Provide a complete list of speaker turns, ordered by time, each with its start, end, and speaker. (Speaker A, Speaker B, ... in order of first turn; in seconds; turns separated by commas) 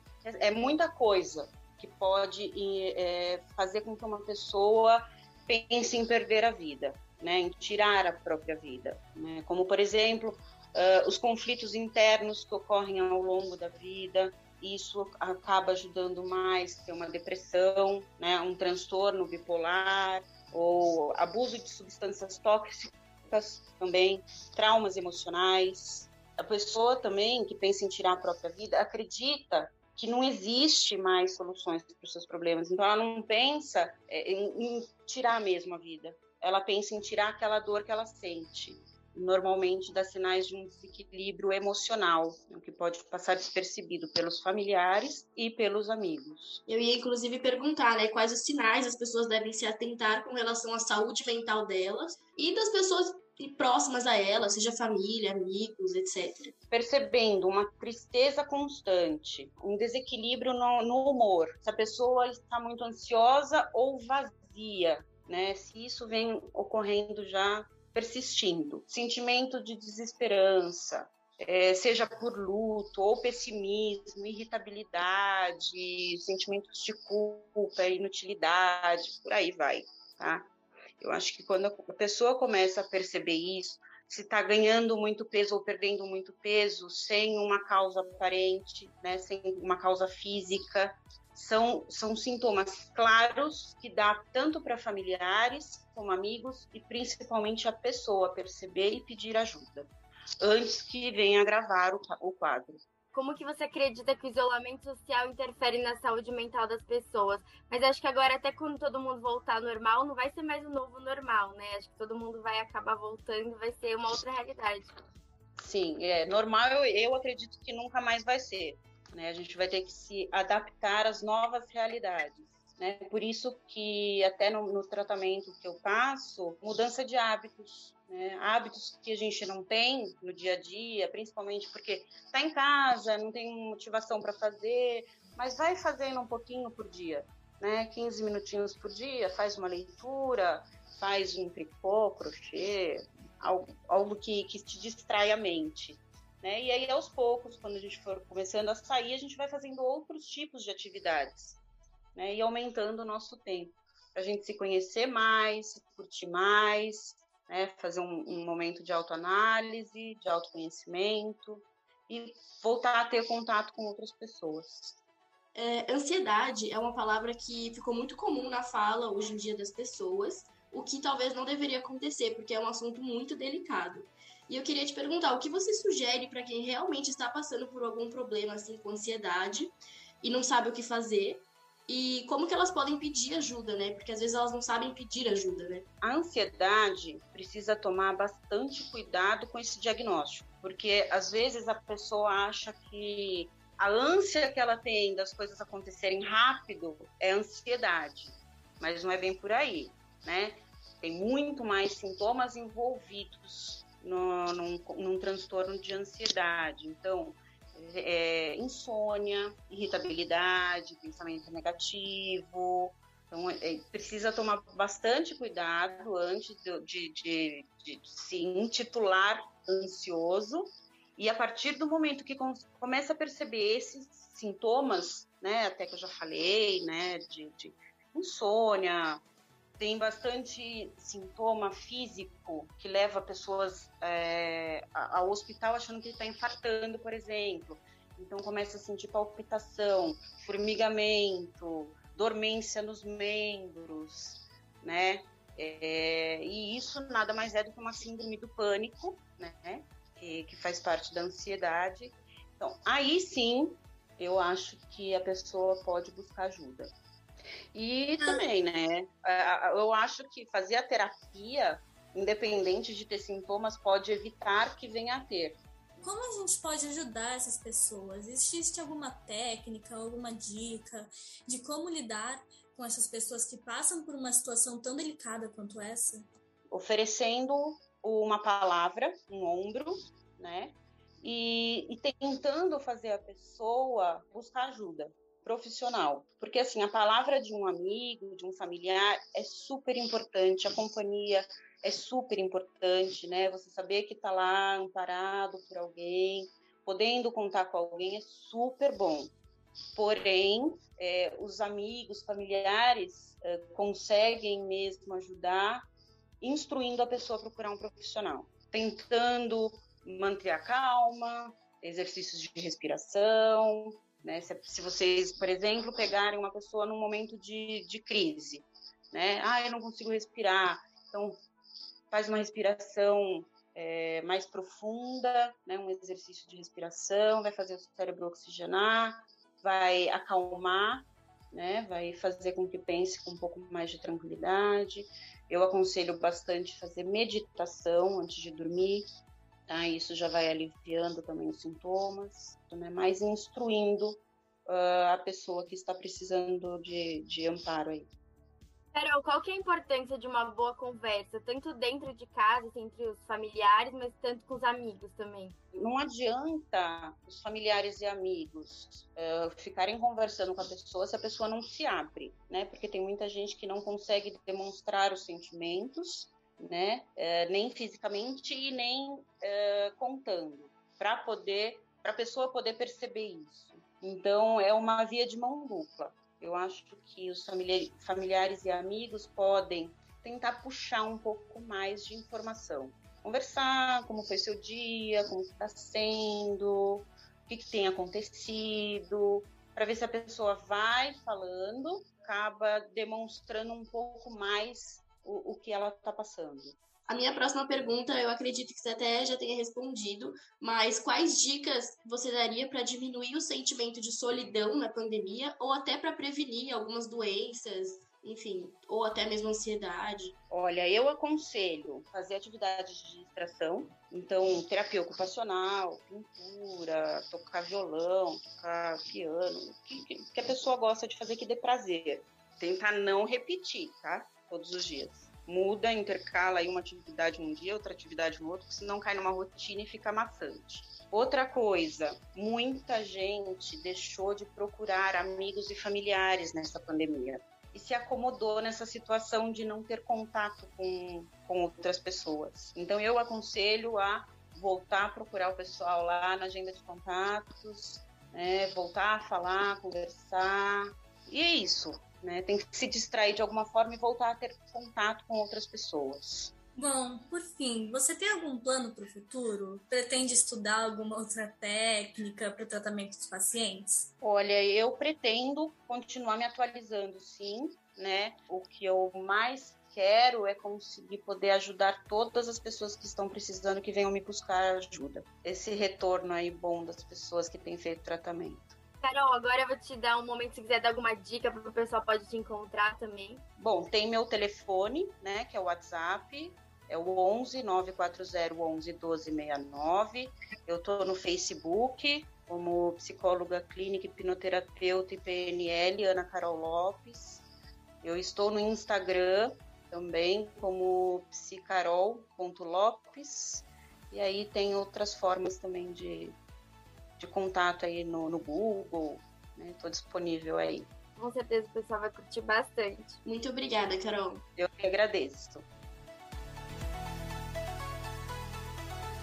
Speaker A: 0.2-46.6, Speaker B: 46.7-56.5, Speaker A: 56.7-80.4, Speaker A: 81.0-99.9, Speaker A: 100.4-102.8, Speaker C: 103.1-115.0, Speaker A: 115.6-151.6, Speaker A: 152.1-165.0, Speaker B: 165.5-185.8, Speaker A: 186.0-229.2, Speaker A: 229.8-256.9, Speaker A: 257.7-265.6, Speaker D: 258.2-258.4, Speaker D: 266.0-276.2, Speaker A: 276.7-299.3, Speaker A: 300.0-305.9, Speaker A: 306.4-321.4, Speaker A: 322.1-339.1, Speaker A: 339.7-348.1, Speaker C: 348.9-355.5, Speaker A: 355.7-396.8, Speaker B: 397.1-410.3, Speaker A: 410.5-456.5, Speaker D: 456.8-464.1, Speaker A: 464.2-478.8, Speaker C: 479.0-483.4, Speaker A: 483.6-497.5, Speaker A: 498.0-506.4, Speaker A: 507.2-510.9, Speaker C: 511.2-513.2, Speaker B: 513.2-514.4, Speaker A: 514.6-515.6